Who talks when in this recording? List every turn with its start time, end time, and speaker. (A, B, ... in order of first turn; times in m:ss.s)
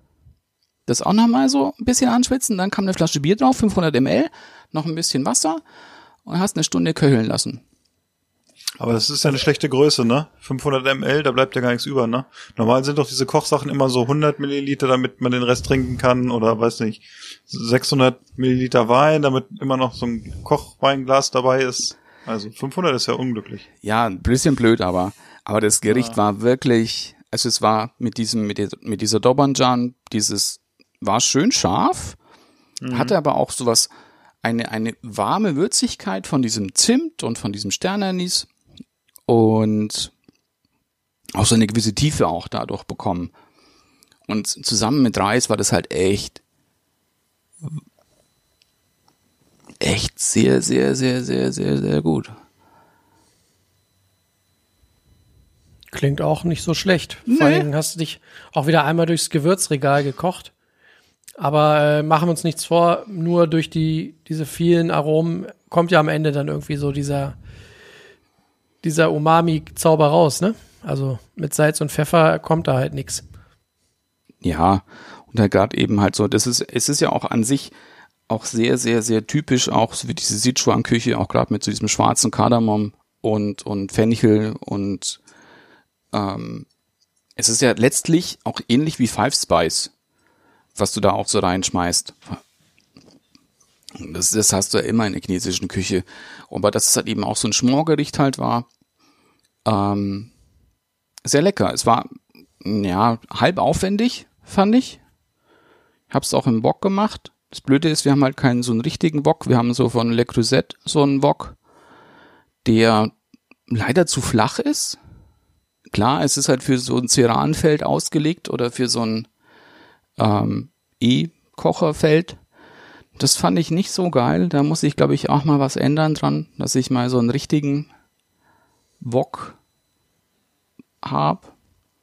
0:00.9-0:05.6 A
0:06.2-0:07.6 A
0:08.8-0:23.7 B
0:23.8-0:32.2 A
0:25.9-0:26.2 B
0:32.8-0:33.2 B
0:32.9-0:33.9 A
0:34.4-0:38.5 A
0:39.3-0:40.1 A
0:41.4-0:43.3 A
0:44.3-0:46.4 A
0:49.8-0:52.4 A
0:55.9-1:00.5 C
0:57.3-0:57.7 A
1:01.4-1:07.4 C
1:08.8-1:13.2 C
1:14.4-1:17.7 A
1:18.3-1:25.2 A
1:26.1-1:26.7 A
1:27.4-1:29.9 A
1:30.8-1:32.4 A
1:34.0-1:38.7 A
1:39.6-1:40.3 A
1:41.2-1:45.0 A
1:46.1-1:51.6 A
1:52.6-1:53.1 A
1:53.7-1:55.0 A
1:55.9-1:59.3 A
2:00.2-2:02.4 A
2:03.2-2:07.9 A
2:09.0-2:09.6 A
2:11.0-2:11.5 A